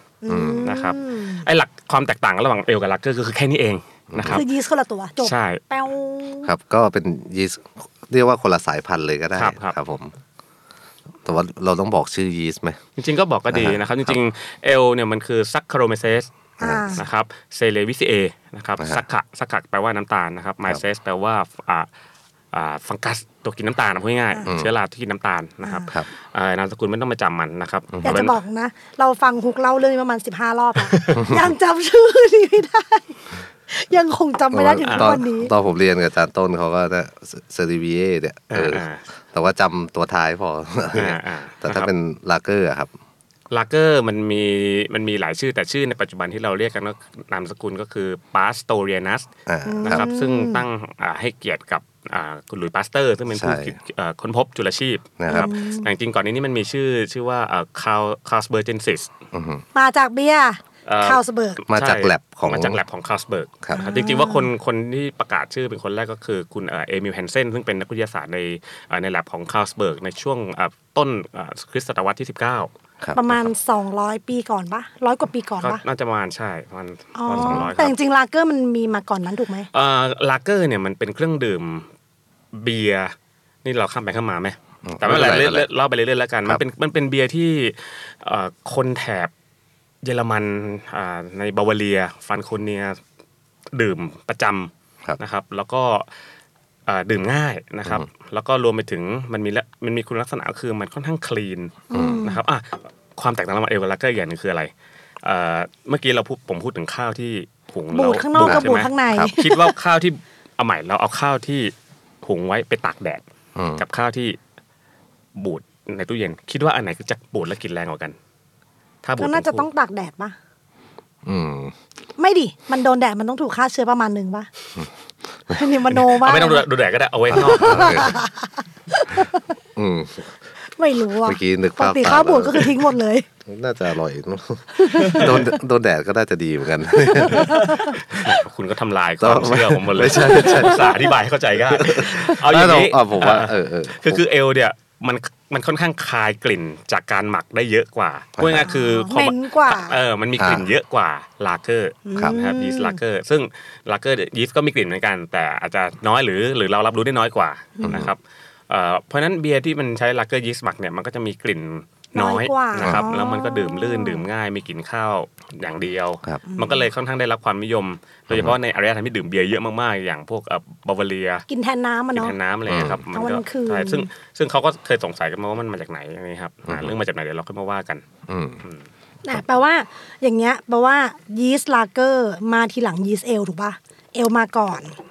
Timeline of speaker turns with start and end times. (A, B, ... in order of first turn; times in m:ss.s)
0:00.2-0:01.4 A
0:00.3-0:00.7 B
0:00.6-0:04.5 C
0:04.1-0:04.4 B
0:04.3-0:06.5 A
0:05.2-0:05.6 C
0:06.4-0:10.1 B
0:09.3-0:09.8 C
0:11.2-0:12.8 B
0:13.0-0:16.3 C
0:13.5-0:14.2 B
0:16.6-0:17.0 A
0:16.6-0:17.0 B
0:16.9-0:21.9 C
0:22.5-0:28.4 C
0:24.4-0:24.7 B
0:25.6-0:25.9 A
0:27.9-0:28.2 B
0:28.0-0:35.5 A
0:30.8-0:31.3 C
0:34.5-0:42.9 B
0:34.8-0:35.2 C
0:38.5-0:39.0 C
0:40.9-0:41.9 C
0:43.5-0:49.3 C
0:49.4-0:50.1 B
0:49.6-0:50.6 A
0:49.8-0:59.1 C
0:53.3-0:53.7 B
0:55.2-0:55.5 B
0:55.3-0:55.9 A
0:59.3-0:59.6 B
0:59.7-1:01.6 A
1:00.8-1:12.7 C
1:01.7-1:02.8 B
1:03.7-1:04.5 A
1:13.1-1:15.8 A
1:15.6-1:18.0 C
1:17.2-1:19.7 A
1:17.3-1:17.7 B
1:19.7-1:21.9 C
1:22.5-1:29.3 C
1:24.8-1:25.7 B
1:30.0-1:33.0 C
1:33.7-1:36.1 C
1:36.9-1:44.7 C
1:41.9-1:42.4 A
1:41.9-1:42.3 B
1:45.2-1:53.2 C
1:47.9-1:49.7 A
1:48.4-1:49.3 B
1:53.6-1:53.8 B
1:53.8-1:54.4 C
1:55.3-1:58.2 C
1:59.0-1:59.7 C
1:59.2-2:00.4 A
2:01.2-2:01.7 B
2:02.2-2:04.5 A
2:05.5-2:06.6 A
2:06.2-2:08.1 C
2:07.3-2:08.1 B
2:07.5-2:09.5 A
2:09.8-2:10.3 B
2:10.8-2:13.3 A
2:11.2-2:12.8 B
2:13.4-2:17.8 B
2:14.7-2:15.6 A
2:17.0-2:17.9 A
2:17.7-2:51.4 C
2:19.2-2:21.0 B
2:20.2-2:21.0 A
2:21.7-2:24.2 B
2:28.4-2:28.7 B
2:28.6-2:30.0 A
2:30.4-2:30.7 B
2:32.0-2:33.0 A
2:37.8-2:38.1 A
2:37.8-2:38.1 B
2:42.1-2:44.2 A
2:42.8-2:43.1 B
2:46.5-2:46.8 A
2:48.3-2:48.5 B
2:51.5-2:52.3 A
2:52.1-2:58.0 C
2:52.7-2:53.0 B
2:53.1-2:54.1 A
2:56.7-2:56.9 B
2:58.3-2:58.6 B
2:59.2-3:05.0 A